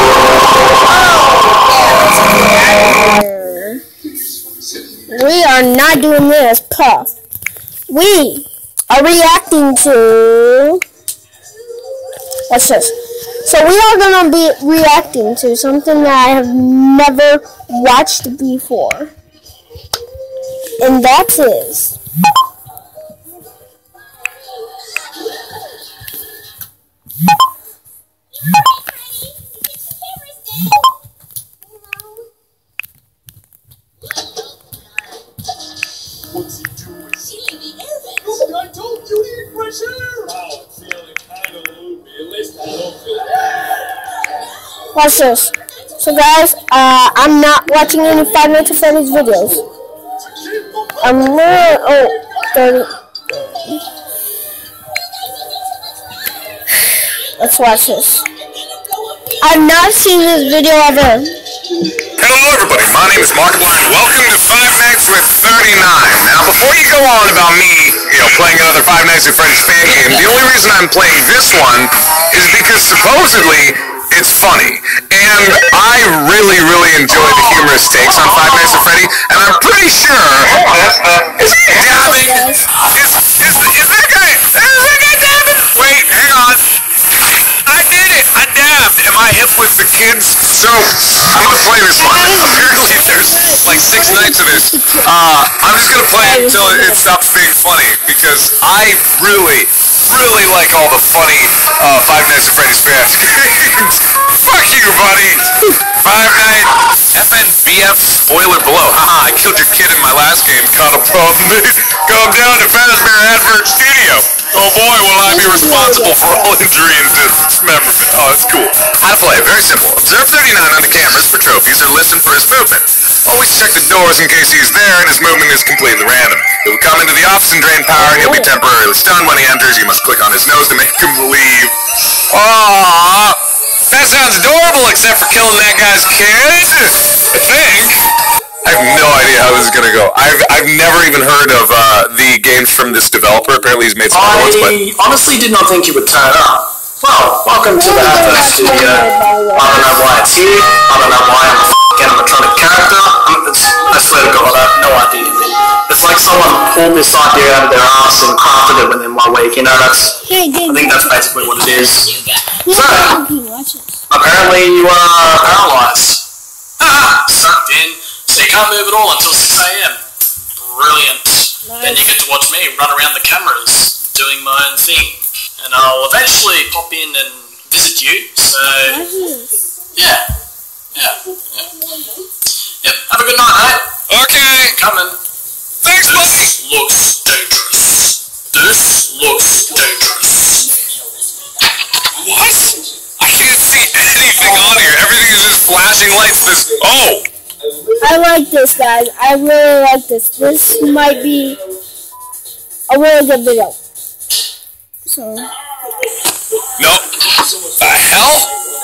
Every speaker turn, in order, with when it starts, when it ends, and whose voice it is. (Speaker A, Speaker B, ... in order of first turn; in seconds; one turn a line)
Speaker A: 0.9-3.8
Speaker A: 5.1-7.1
Speaker A: 7.9-10.8
Speaker A: 12.5-19.1
Speaker A: 20.8-22.0
Speaker A: 44.9-49.6
Speaker A: 51.0-52.9
Speaker A: 53.5-53.8
Speaker A: 57.4-58.2
Speaker A: 59.4-61.4
Speaker B: 62.2-86.6
Speaker C: 78.3-78.7
Speaker A: 81.9-82.7
Speaker B: 87.7-131.7
Speaker A: 92.0-95.1
Speaker A: 96.2-97.1
Speaker A: 115.3-116.2
Speaker A: 128.0-128.5
Speaker B: 132.3-138.0
Speaker B: 138.6-144.7
Speaker C: 144.1-162.1
Speaker A: 147.7-150.1
Speaker A: 160.2-161.3
Speaker A: 162.5-164.0
Speaker C: 162.7-163.2
Speaker C: 164.1-166.2
Speaker C: 166.8-170.0
Speaker C: 170.6-179.0
Speaker A: 171.7-172.1
Speaker A: 178.8-179.5
Speaker C: 179.9-180.3
Speaker C: 180.9-181.7
Speaker C: 182.8-183.9
Speaker B: 184.1-184.8
Speaker C: 184.6-185.2
Speaker B: 185.8-186.6
Speaker C: 186.1-190.7
Speaker B: 192.2-197.3
Speaker A: 198.0-201.6
Speaker A: 202.9-203.8
Speaker A: 205.1-205.5
Speaker B: 206.8-207.1
Speaker B: 207.8-208.5